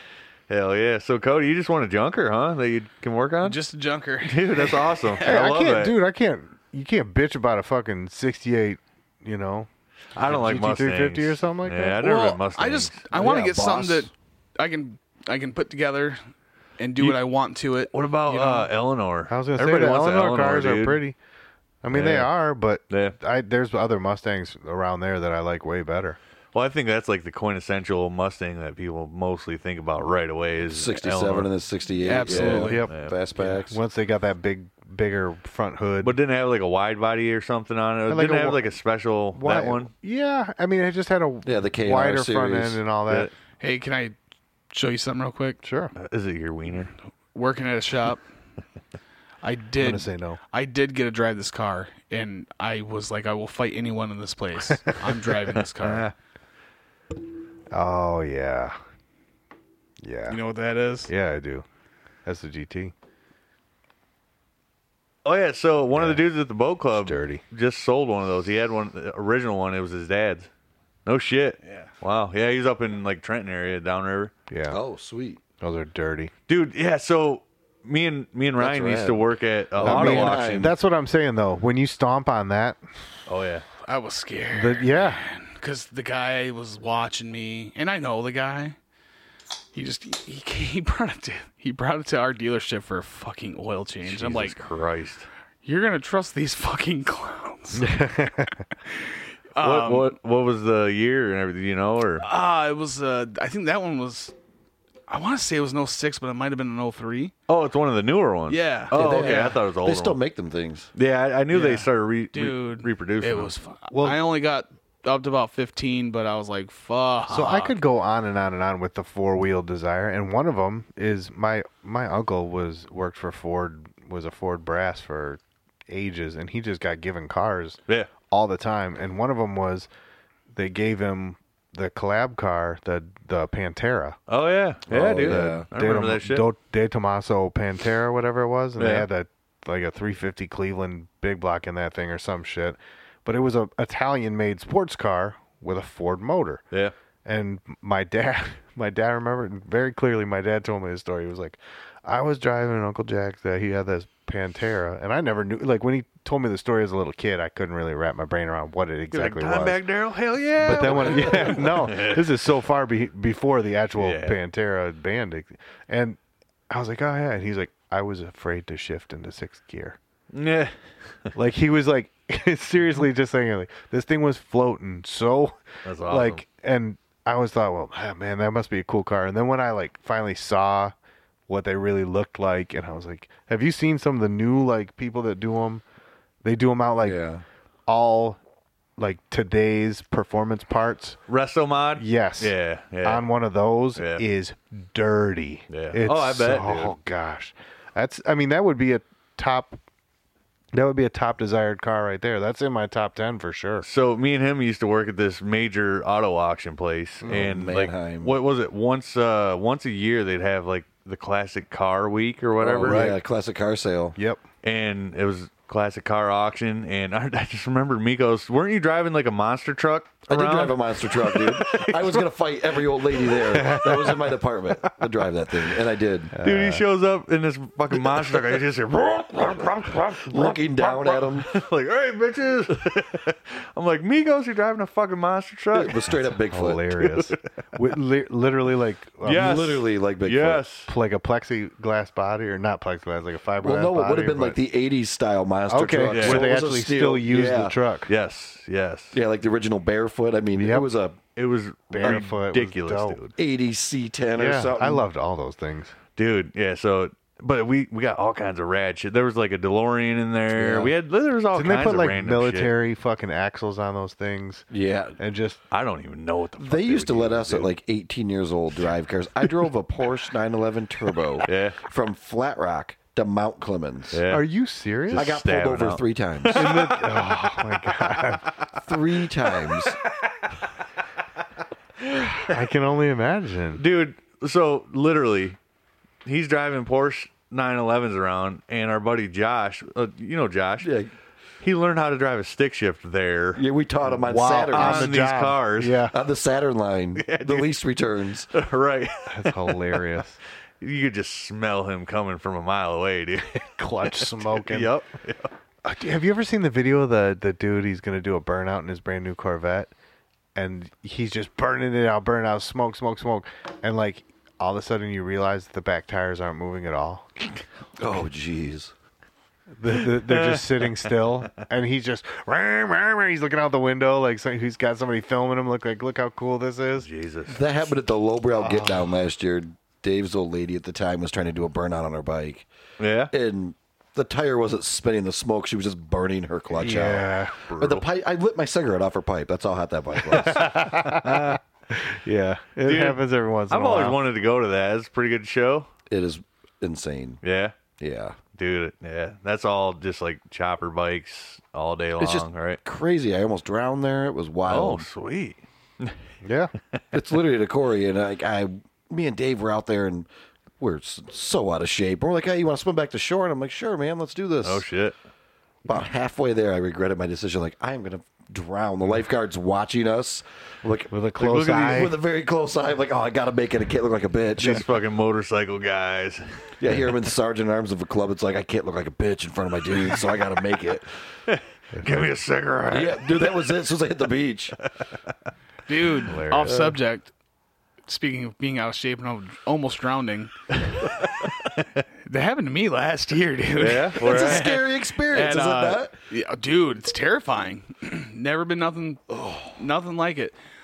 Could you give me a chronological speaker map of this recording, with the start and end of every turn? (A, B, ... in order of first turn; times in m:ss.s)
0:00.5-0:03.6 A
0:03.4-0:05.4 B
0:04.2-0:06.0 A
0:05.2-0:09.7 C
0:10.2-0:13.0 A
0:10.2-0:12.0 C
0:12.0-0:16.2 B
0:13.1-0:14.1 D
0:16.8-0:18.7 B
0:17.9-0:21.0 A
0:19.3-0:21.2 C
0:21.8-0:26.2 C
0:21.9-0:22.3 A
0:22.9-0:23.2 A
0:26.5-0:31.5 A
0:30.6-0:33.8 D
0:32.0-0:32.8 B
0:32.3-0:33.6 A
0:32.5-0:32.9 C
0:33.7-0:36.2 C
0:36.0-0:39.9 A
0:38.1-0:38.7 C
0:39.4-0:43.3 C
0:41.4-0:42.8 D
0:43.6-0:44.2 B
0:44.7-0:45.6 B
0:45.6-0:45.9 C
0:46.0-0:46.9 A
0:47.3-0:48.2 B
0:49.4-0:56.1 B
0:49.8-0:50.4 C
0:55.8-0:56.1 A
0:57.7-0:58.8 C
1:00.0-1:00.4 C
1:00.3-1:01.1 B
1:01.1-1:01.6 C
1:02.3-1:02.9 C
1:05.2-1:10.5 A
1:05.9-1:06.2 C
1:07.0-1:07.4 C
1:11.1-1:14.3 A
1:14.5-1:14.8 C
1:14.7-1:15.4 D
1:15.6-1:16.3 C
1:16.5-1:20.7 A
1:18.6-1:20.8 D
1:19.8-1:22.8 C
1:23.3-1:23.7 A
1:23.8-1:28.8 B
1:24.5-1:25.2 C
1:29.7-1:34.6 B
1:34.0-1:35.3 A
1:35.6-1:37.9 B
1:37.8-1:38.6 C
1:38.9-1:40.2 B
1:39.6-1:42.3 A
1:42.2-1:44.3 B
1:45.1-1:47.3 B
1:47.5-1:50.2 A
1:48.5-1:49.6 B
1:48.9-1:50.9 D
1:51.0-1:53.5 A
1:51.5-1:57.8 B
1:53.9-1:54.2 C
1:57.3-2:09.9 C
2:10.5-2:14.2 C
2:14.3-2:16.5 A
2:14.9-2:15.7 D
2:15.2-2:26.6 C
2:18.8-2:19.1 A
2:27.2-2:39.8 C
2:39.1-2:42.3 A
2:40.6-2:46.2 C
2:40.7-2:41.7 D
2:44.0-2:44.4 A
2:46.7-2:50.0 C
2:50.3-2:51.3 A
2:51.4-3:00.9 C
2:55.8-2:56.4 A
3:01.5-3:05.8 C
3:06.4-3:07.2 C
3:07.0-3:07.4 D
3:07.9-3:08.4 C
3:09.0-3:11.2 C
3:11.3-3:13.2 A
3:12.0-3:19.8 C
3:14.0-3:14.2 A
3:15.7-3:17.0 A
3:20.7-3:23.9 C
3:23.8-3:33.2 A
3:27.2-3:27.5 C
3:27.2-3:28.3 D
3:32.6-3:34.2 D
3:32.8-3:33.2 C
3:34.2-3:34.4 C
3:34.6-3:42.3 A
3:40.3-3:46.3 D
3:43.1-3:43.8 A
3:43.6-3:44.1 C
3:46.3-3:46.8 C
3:46.4-3:56.1 A
3:50.2-3:51.5 D
3:55.7-3:56.9 D
3:56.5-3:59.6 C
3:57.0-3:57.3 A
3:59.2-4:00.9 A
3:59.2-4:00.6 D
4:00.9-4:04.6 C
4:03.6-4:07.8 D
4:05.7-4:08.1 C
4:06.1-4:06.5 A
4:08.1-4:09.2 A
4:09.1-4:11.2 D
4:10.6-4:10.9 C
4:11.4-4:13.4 A
4:11.9-4:13.2 C
4:12.0-4:12.3 D
4:13.4-4:15.1 D
4:14.4-4:16.0 C
4:16.2-4:22.7 A
4:20.5-4:20.9 D
4:21.5-4:24.7 C
4:24.7-4:25.2 D
4:25.2-4:25.6 C
4:25.7-4:27.7 A
4:26.6-4:34.2 D
4:31.4-4:31.8 A
4:34.1-4:34.5 A
4:34.3-4:35.4 C
4:35.1-4:38.9 A
4:35.1-4:36.8 D
4:36.5-4:38.4 C
4:38.8-4:40.0 D
4:39.5-4:40.0 A
4:42.0-4:42.5 A
4:42.4-4:43.8 C
4:43.8-4:45.6 A
4:46.2-4:50.9 A
4:50.8-4:51.1 D
4:51.6-4:53.6 A
4:53.6-4:55.2 D
4:54.2-4:56.1 C
4:54.7-4:56.1 A
4:56.1-4:58.5 D
4:57.2-4:57.7 A
4:58.5-5:00.0 A
4:59.3-5:00.4 C
5:00.8-5:05.5 A
5:03.6-5:04.9 C
5:05.8-5:09.9 C
5:10.6-5:17.3 C
5:18.0-5:18.9 D
5:19.8-5:27.1 C
5:20.3-5:20.9 A
5:27.0-5:27.6 A
5:27.5-5:32.7 D
5:28.6-5:29.1 C
5:33.0-5:33.3 A
5:33.3-5:40.6 D
5:36.8-5:37.6 C
5:37.7-5:38.1 A
5:40.3-5:44.2 C
5:40.6-5:41.6 A
5:42.8-5:45.9 A
5:46.1-5:47.4 D
5:47.4-5:47.8 A
5:48.0-5:48.4 D
5:48.6-5:52.8 A
5:52.2-5:55.1 D
5:54.7-5:56.2 A
5:56.4-5:56.7 C
5:57.1-6:00.3 D
6:00.8-6:04.9 D
6:04.6-6:05.2 A
6:05.8-6:14.9 D
6:11.1-6:12.1 C
6:11.8-6:12.1 A
6:14.6-6:16.7 A
6:16.8-6:21.1 D
6:21.5-6:23.6 A
6:22.0-6:22.3 C
6:22.9-6:24.8 D
6:25.9-6:27.3 B
6:26.3-6:26.8 C
6:26.6-6:26.9 A
6:28.1-6:30.5 B
6:30.8-6:32.0 A
6:32.2-6:40.5 B
6:33.8-6:34.7 A
6:34.2-6:36.2 D
6:39.3-6:39.8 D